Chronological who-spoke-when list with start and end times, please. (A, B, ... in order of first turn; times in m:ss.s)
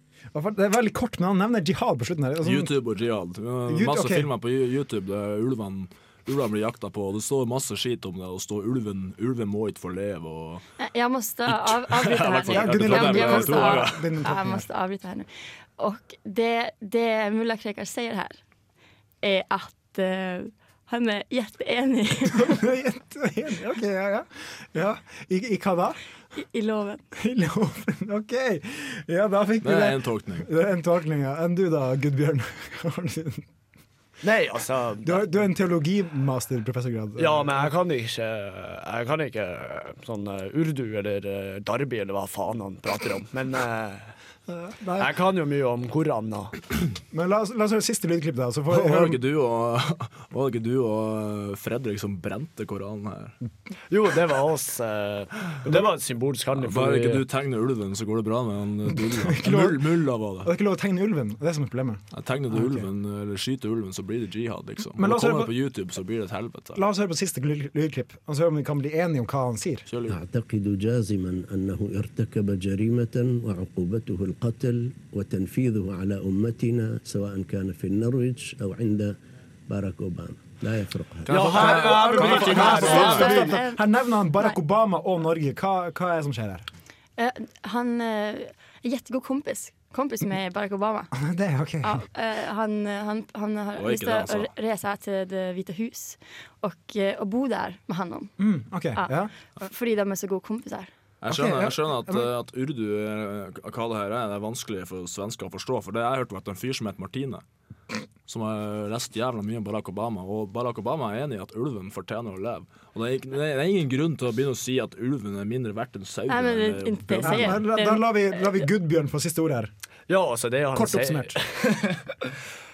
0:00.3-0:02.7 A
0:02.4-0:10.6 B
0:03.7-0:04.3 A
0:10.8-0:18.4 C
0:11.5-0:14.0 B
0:12.4-0:14.7 A
0:19.2-0:22.6 C
0:22.3-0:26.0 A
0:26.4-0:27.0 C
0:27.2-0:33.5 A
0:29.6-0:30.5 B
0:34.2-0:35.3 D
0:35.0-0:37.7 A
0:37.2-0:44.2 D
0:44.5-0:45.1 A
0:45.0-0:46.6 D
0:47.1-0:49.2 A
0:48.7-0:53.4 B
0:53.9-0:57.2 D
0:56.6-1:00.5 B
0:59.0-1:02.9 A
1:02.1-1:06.8 B
1:05.0-1:05.5 A
1:06.8-1:09.9 A
1:09.9-1:10.2 B
1:10.1-1:19.2 E
1:19.7-1:21.5 E
1:21.3-1:23.4 D
1:21.3-1:23.6 B
1:21.4-1:26.7 A
1:22.2-1:24.6 C
1:27.2-1:31.1 C
1:31.1-1:32.0 A
1:31.8-1:38.3 C
1:33.8-1:34.5 B
1:38.4-1:39.3 A
1:39.0-1:40.9 C
1:41.2-1:47.4 B
1:41.3-1:42.3 A
1:48.3-1:57.6 B
1:56.3-1:58.6 C
1:57.2-1:59.7 A
2:00.1-2:02.3 D
2:00.7-2:01.4 A